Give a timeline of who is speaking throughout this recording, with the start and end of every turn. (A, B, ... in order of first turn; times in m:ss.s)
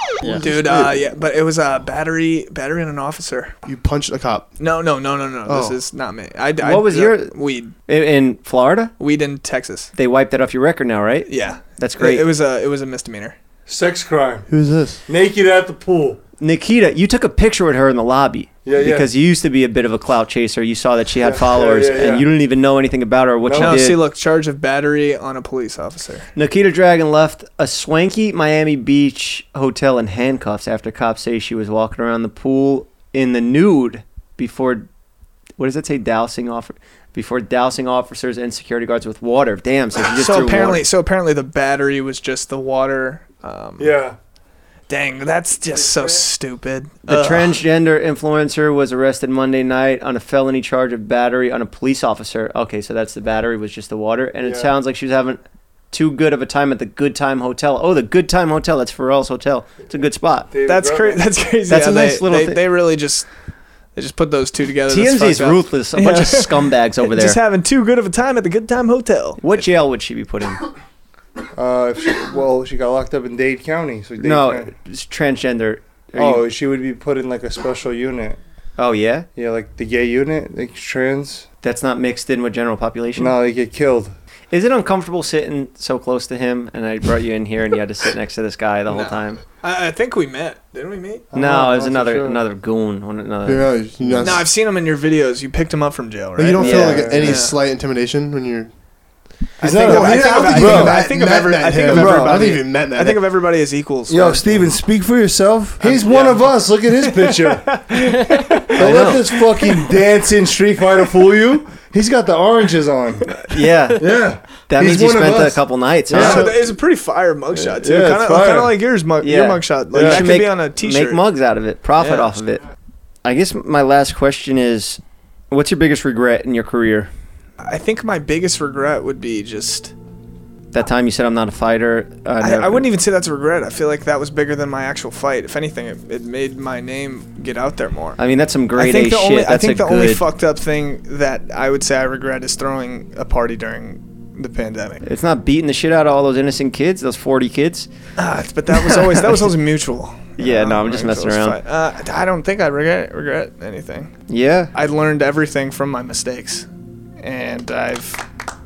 0:00.2-0:01.1 A
0:00.4-0:03.5 B
0:03.6-0:04.5 A
0:04.6-0:07.7 B
0:05.4-0:05.8 A
0:06.6-0:07.3 C
0:07.8-0:08.9 C
0:09.0-0:09.9 B
0:09.9-0:12.2 C
0:11.3-0:13.4 B
0:13.7-0:14.4 D
0:14.5-0:15.0 A
0:15.1-0:16.2 D
0:16.4-0:24.0 C
0:18.6-0:19.1 D
0:21.2-0:22.3 D
0:23.4-0:23.8 D
0:23.6-0:26.3 B
0:26.3-0:34.9 C
0:35.6-0:40.8 C
0:40.1-0:43.9 B
0:43.8-0:44.2 D
0:44.9-0:47.6 B
0:45.8-0:46.2 D
0:47.0-1:00.5 C
0:54.4-0:54.7 D
1:00.5-1:01.2 D
1:00.6-1:03.3 B
1:01.7-1:02.6 C
1:03.9-1:09.6 B
1:04.9-1:07.4 C
1:09.4-1:10.6 C
1:11.6-1:14.7 D
1:14.2-1:16.4 C
1:16.2-1:18.4 D
1:18.8-1:19.3 C
1:19.3-1:21.4 D
1:21.6-1:23.4 C
1:23.2-1:24.1 D
1:24.5-1:29.4 C
1:28.9-1:31.2 B
1:31.3-1:32.4 D
1:31.3-1:34.3 C
1:33.4-1:34.5 A
1:34.2-1:37.6 B
1:36.4-1:38.7 A
1:36.6-1:37.4 D
1:36.6-1:37.2 C
1:39.6-1:41.0 D
1:39.6-1:44.7 B
1:39.8-1:43.2 A
1:41.9-1:42.4 D
1:44.1-1:53.4 D
1:45.8-1:49.0 B
1:48.8-1:49.2 C
1:53.4-1:56.4 C
1:54.0-1:56.5 D
1:56.1-2:01.2 B
1:56.1-1:56.5 A
1:57.5-1:58.7 D
1:59.2-2:02.6 C
1:59.9-2:00.2 D
2:02.0-2:02.3 B
2:03.2-2:05.0 C
2:05.5-2:07.1 C
2:07.6-2:09.9 B
2:10.7-2:12.9 C
2:12.4-2:18.2 B
2:18.2-2:20.2 C
2:18.7-2:25.0 B
2:25.0-2:27.9 C
2:28.2-2:34.1 B
2:30.4-2:31.6 C
2:34.3-2:34.7 C
2:34.7-2:36.6 B
2:37.2-2:38.2 B